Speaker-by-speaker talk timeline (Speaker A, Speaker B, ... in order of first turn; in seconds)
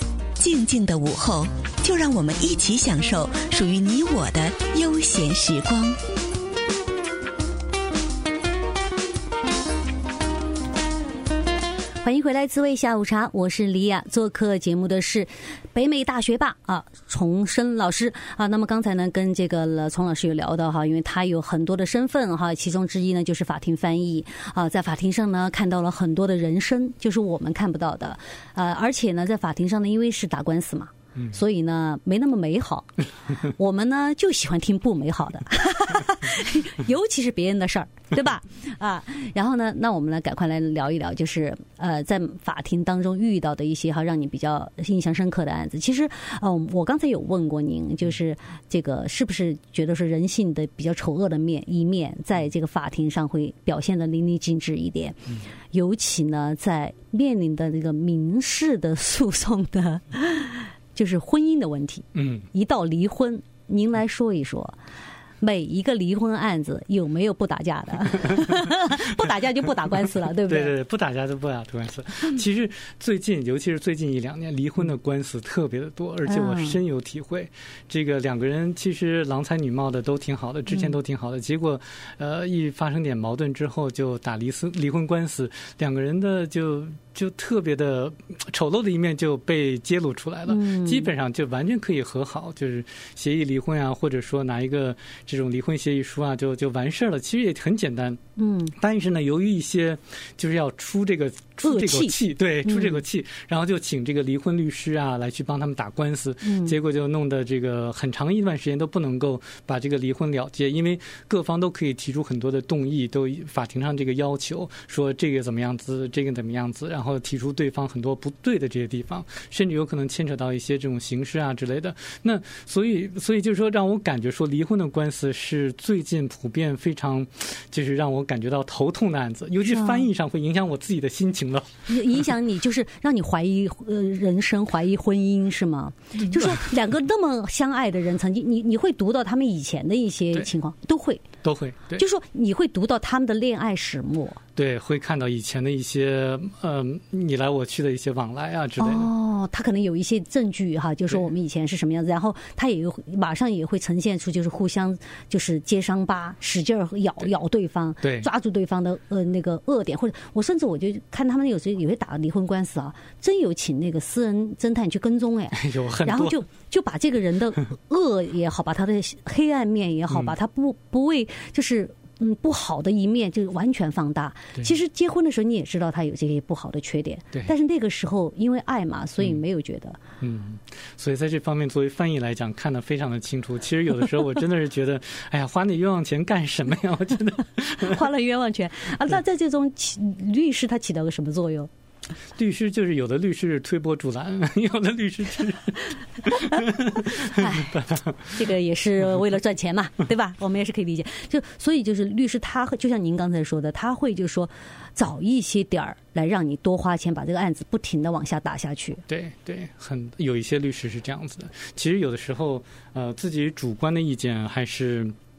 Speaker A: 0.4-6.0
Speaker B: 12.0-55.2, 55.7-64.8, 65.4-70.7, 76.2-76.8, 90.5-91.1, 98.4-98.7, 101.6-103.0, 106.4-106.7, 129.6-130.1, 131.9-141.3, 142.0-144.4, 148.8-180.0, 187.8-191.7, 196.3-209.0
Speaker C: 62.1-62.5, 70.0-98.2, 98.7-131.9, 136.2-136.6, 141.4-142.0, 144.6-149.1, 158.0-158.3, 165.5-166.4, 170.1-170.3, 180.2-188.0, 192.3-198.3, 209.1-215.1